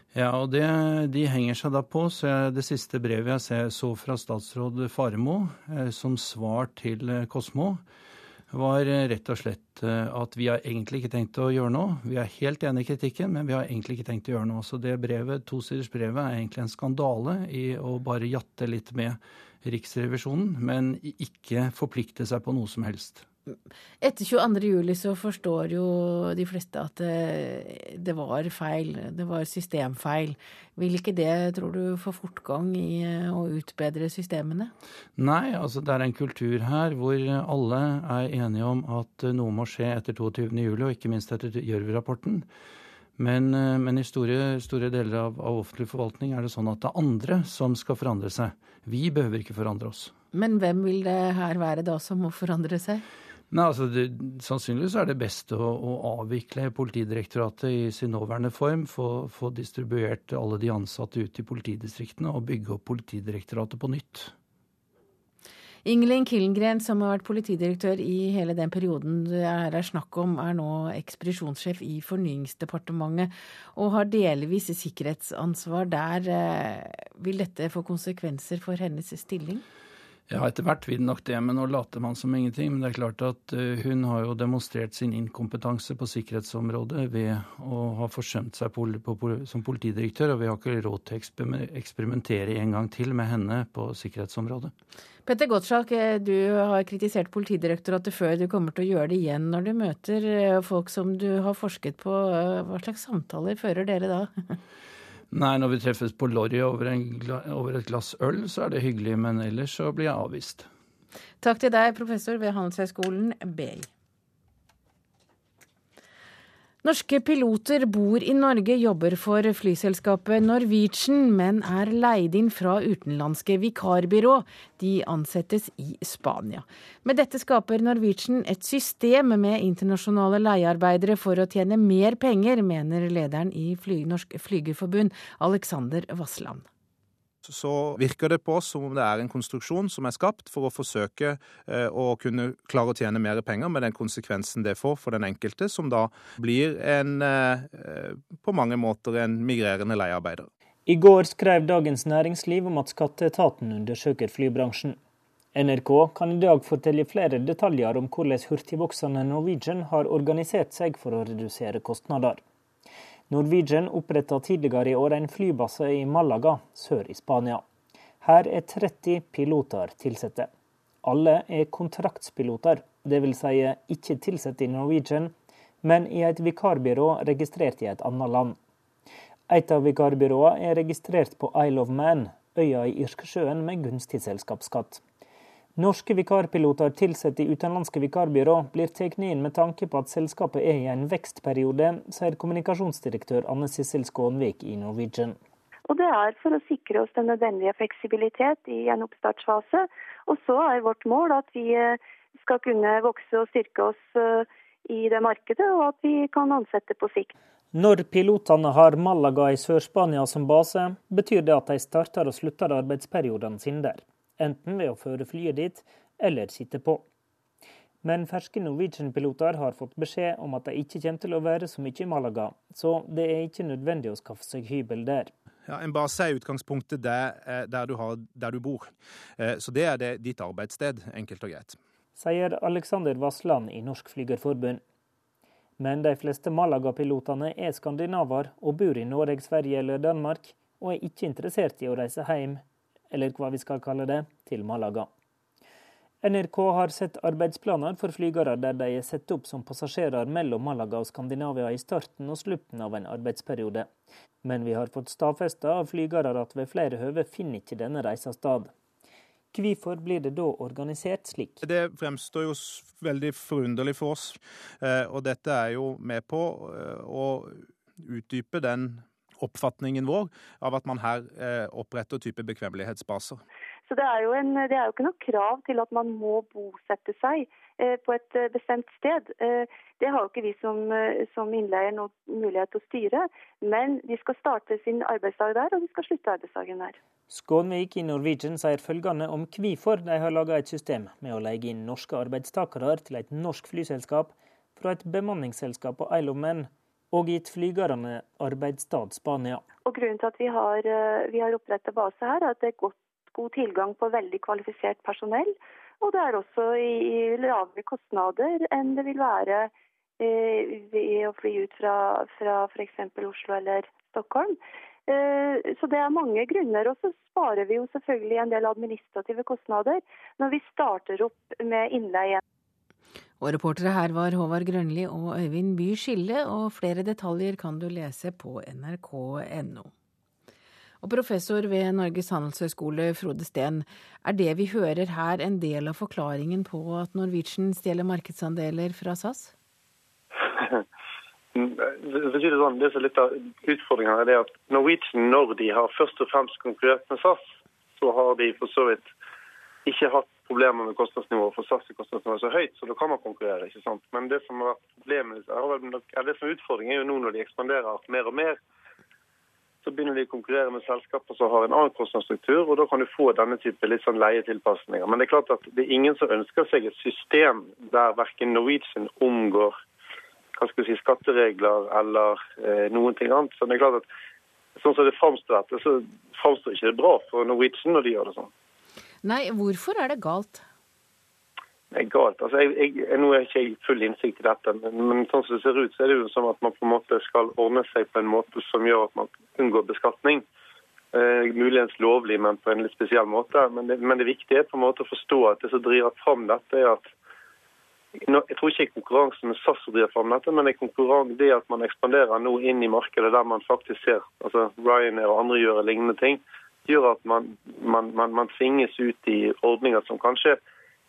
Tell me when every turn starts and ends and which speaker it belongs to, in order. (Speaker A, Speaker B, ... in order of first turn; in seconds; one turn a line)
Speaker A: 0.1-7.8
Speaker A: 8.5-23.2
Speaker B: 24.0-34.7
Speaker A: 35.2-42.5
Speaker A: 43.2-50.1
Speaker B: 50.3-53.0
Speaker A: 53.5-64.3
Speaker B: 65.8-79.6
Speaker A: 80.3-94.7
Speaker B: 95.3-104.5
Speaker A: 105.3-110.7
Speaker B: 111.4-113.9
Speaker B: 116.8-136.7
Speaker C: 137.4-150.5
Speaker D: 150.9-155.0
Speaker D: 155.5-162.4
Speaker D: 163.3-167.6
Speaker D: 168.2-170.5
Speaker D: 171.0-178.6
Speaker D: 179.5-185.0
Speaker D: 185.8-195.4
Speaker E: 195.9-207.3
Speaker D: 207.7-217.0
Speaker D: 218.0-225.3
Speaker C: 225.7-231.8
Speaker D: 232.2-234.8
Speaker D: 235.8-245.1
Speaker D: 246.2-253.9
Speaker D: 254.4-258.7
Speaker D: 259.5-261.6
Speaker C: 261.6-273.4
Speaker E: 273.9-287.0
Speaker D: 287.3-299.6
Speaker E: 299.9-309.7
Speaker E: 310.2-314.6
Speaker E: 315.1-322.4
Speaker B: 323.4-329.9
Speaker B: 331.0-339.5
Speaker F: 340.4-340.8
Speaker F: 341.6-347.4
Speaker F: 348.0-349.1
Speaker F: 349.9-358.6
Speaker F: 359.8-369.8
Speaker F: 370.6-374.1
Speaker F: 374.8-378.5
Speaker B: 379.2-380.6
Speaker F: 381.9-390.4
Speaker F: 391.1-397.1
Speaker F: 398.2-410.6